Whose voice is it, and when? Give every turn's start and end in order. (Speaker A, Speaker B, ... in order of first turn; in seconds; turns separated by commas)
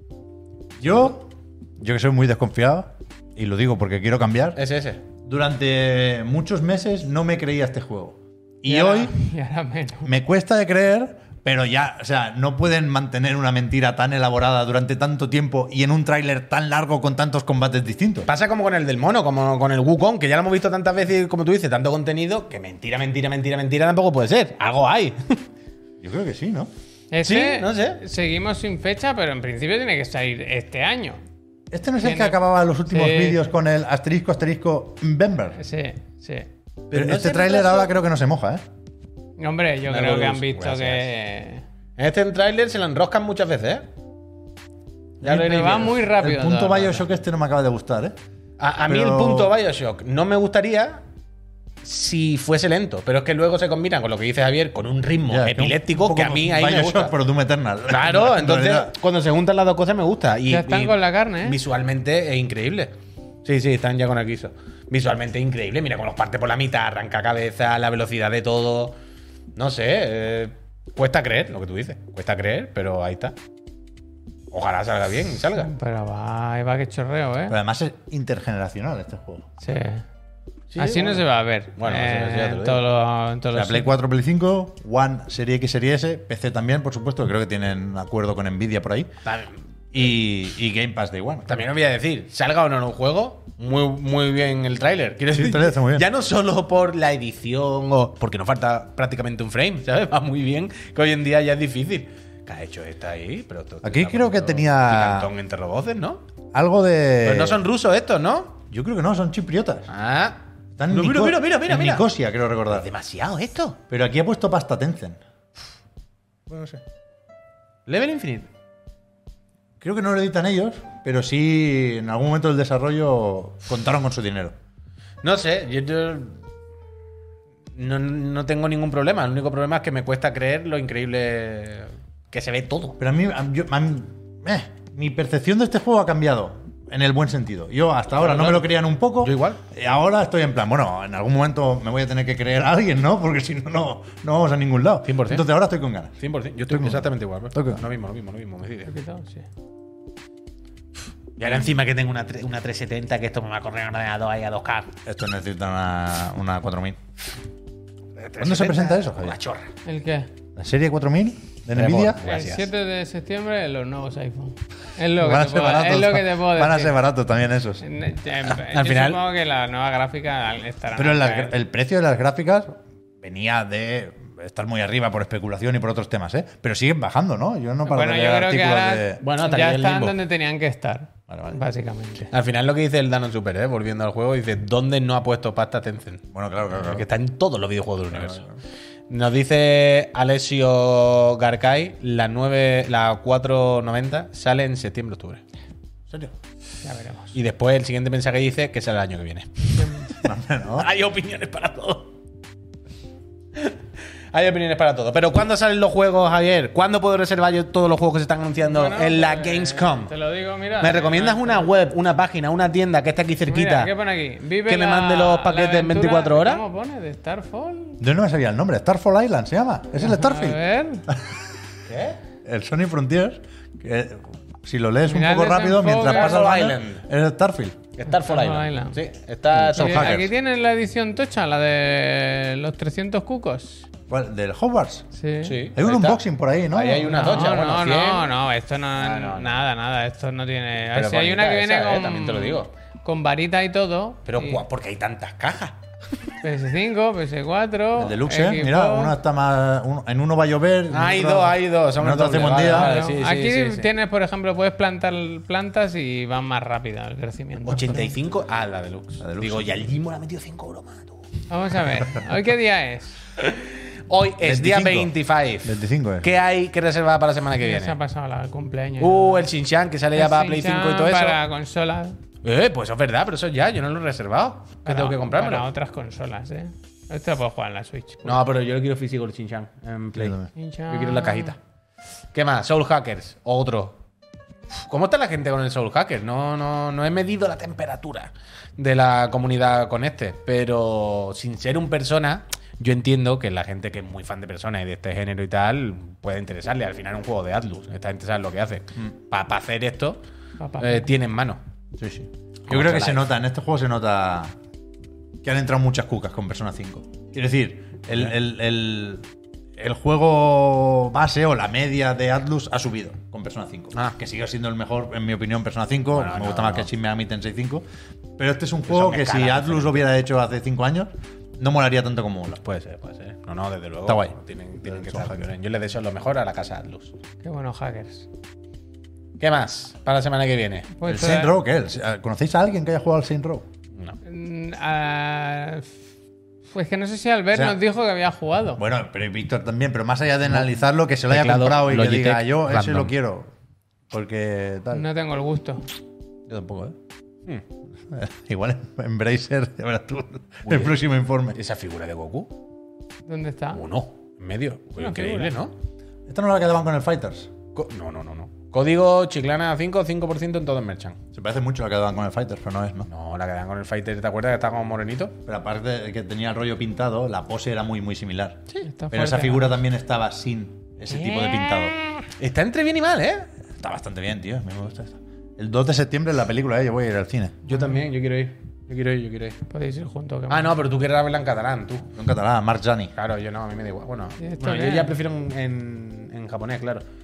Speaker A: 0.8-4.6, Speaker B: 4.5-5.0, Speaker A: 5.2-9.1, Speaker C: 8.7-10.1, Speaker A: 10.0-18.3, Speaker B: 18.3-25.4, Speaker A: 26.0-26.7, Speaker C: 27.1-31.2, Speaker B: 27.2-28.0, Speaker A: 31.7-35.6, Speaker C: 32.0-33.4, Speaker C: 35.6-36.5, Speaker B: 36.9-37.9, Speaker A: 36.9-38.6, Speaker C: 39.4-41.6, Speaker B: 39.9-41.1, Speaker B: 42.0-43.9, Speaker A: 45.2-48.2, Speaker B: 45.2-45.9, Speaker C: 45.2-47.0, Speaker B: 48.6-51.0, Speaker A: 48.9-49.5, Speaker B: 51.8-57.1, Speaker A: 55.3-58.9, Speaker B: 57.9-62.9, Speaker C: 60.5-61.6, Speaker B: 63.4-68.9, Speaker B: 69.5-73.3, Speaker B: 74.5-75.7, Speaker C: 75.6-77.5, Speaker A: 77.5-79.5, Speaker C: 79.6-80.0, Speaker B: 80.7-82.8, Speaker C: 80.8-83.9, Speaker A: 83.5-89.1, Speaker B: 89.2-89.6, Speaker A: 89.9-91.7, Speaker B: 91.5-106.2, Speaker A: 95.3-96.0, Speaker A: 103.8-105.3, Speaker A: 106.5-107.6, Speaker B: 107.2-108.6, Speaker A: 108.7-109.9, Speaker B: 109.9-112.1, Speaker A: 110.8-112.9, Speaker B: 112.7-113.8, Speaker A: 113.9-115.2, Speaker A: 116.5-116.8, Speaker B: 117.9-118.5, Speaker A: 119.8-124.5, Speaker B: 125.2-126.4, Speaker B: 127.8-133.0, Speaker A: 133.0-146.2, Speaker B: 138.2-139.6, Speaker B: 145.1-145.4, Speaker B: 146.2-148.9, Speaker A: 146.7-147.8, Speaker C: 148.8-149.4, Speaker B: 151.4-154.9, Speaker A: 155.1-157.0, Speaker B: 158.2-159.7, Speaker A: 158.4-159.3, Speaker C: 159.8-160.3, Speaker A: 160.6-162.2, Speaker B: 161.7-162.7, Speaker C: 162.2-166.9, Speaker A: 165.2-167.8, Speaker C: 167.8-171.5, Speaker B: 168.5-169.2, Speaker A: 170.9-179.2, Speaker C: 177.8-182.3, Speaker B: 179.2-180.2, Speaker A: 181.3-181.6, Speaker B: 182.3-188.4, Speaker A: 186.3-187.0, Speaker A: 188.1-188.6, Speaker B: 189.1-195.4, Speaker A: 196.1-196.3, Speaker C: 196.8-197.3, Speaker B: 197.3-202.1, Speaker C: 199.8-200.1, Speaker A: 200.2-200.9, Speaker B: 204.3-210.1, Speaker C: 208.6-211.7, Speaker B: 210.8-213.9, Speaker C: 213.5-218.0, Speaker B: 214.7-216.6, Speaker A: 218.0-221.4, Speaker C: 220.0-221.0, Speaker B: 221.9-222.2, Speaker A: 222.4-227.8, Speaker C: 225.1-226.3, Speaker B: 226.0-227.0, Speaker B: 228.0-230.2, Speaker C: 228.1-229.0, Speaker A: 229.5-230.3, Speaker C: 229.8-233.8, Speaker A: 234.1-235.1, Speaker C: 235.1-235.6, Speaker B: 235.4-236.2, Speaker A: 235.7-237.2, Speaker B: 236.7-238.3, Speaker C: 237.1-244.6, Speaker B: 238.9-239.6, Speaker B: 240.9-242.7, Speaker B: 244.2-245.8, Speaker C: 246.4-249.1, Speaker A: 247.9-253.0, Speaker B: 250.9-253.9, Speaker C: 252.7-258.1, Speaker B: 257.6-261.2, Speaker A: 259.2-259.9, Speaker C: 261.5-263.1, Speaker B: 263.4-267.9, Speaker A: 264.4-265.1, Speaker A: 265.6-266.3, Speaker C: 267.6-269.4, Speaker B: 269.0-271.4, Speaker C: 270.1-272.2, Speaker B: 272.4-275.7, Speaker C: 274.8-278.4, Speaker B: 278.2-280.4, Speaker A: 280.2-280.5, Speaker C: 280.6-281.6, Speaker B: 280.9-281.6, Speaker B: 282.3-284.0, Speaker B: 284.8-300.2, Speaker C: 300.6-301.1, Speaker B: 300.8-301.6, Speaker A: 301.9-304.5, Speaker B: 302.7-303.2, Speaker A: 305.4-309.2, Speaker A: 309.8-317.9, Speaker B: 316.1-316.9, Speaker A: 318.4-322.6, Speaker B: 318.9-320.1, Speaker B: 322.6-327.1, Speaker A: 324.1-325.5, Speaker C: 327.4-328.3, Speaker B: 329.4-330.9, Speaker C: 331.0-331.5, Speaker A: 331.1-333.7, Speaker C: 334.2-335.9, Speaker C: 336.7-338.8, Speaker A: 337.5-337.8, Speaker A: 338.8-343.5, Speaker B: 341.3-343.1, Speaker A: 344.1-345.1, Speaker C: 344.9-345.8, Speaker B: 346.5-346.9, Speaker A: 348.1-351.6, Speaker B: 350.6-350.9, Speaker B: 351.5-352.6, Speaker C: 353.3-353.8, Speaker B: 353.7-355.7, Speaker C: 355.0-355.5, Speaker A: 356.3-357.5, Speaker B: 357.7-361.2, Speaker A: 361.3-363.1, Speaker B: 363.1-365.4, Speaker A: 365.5-371.9, Speaker C: 368.8-369.7, Speaker C: 371.1-372.2, Speaker B: 372.4-373.5, Speaker A: 373.8-377.6, Speaker B: 377.6-379.6, Speaker C: 377.7-378.0, Speaker C: 379.7-380.8, Speaker B: 380.5-382.1, Speaker A: 382.1-383.1, Speaker B: 383.1-387.0, Speaker C: 384.4-385.1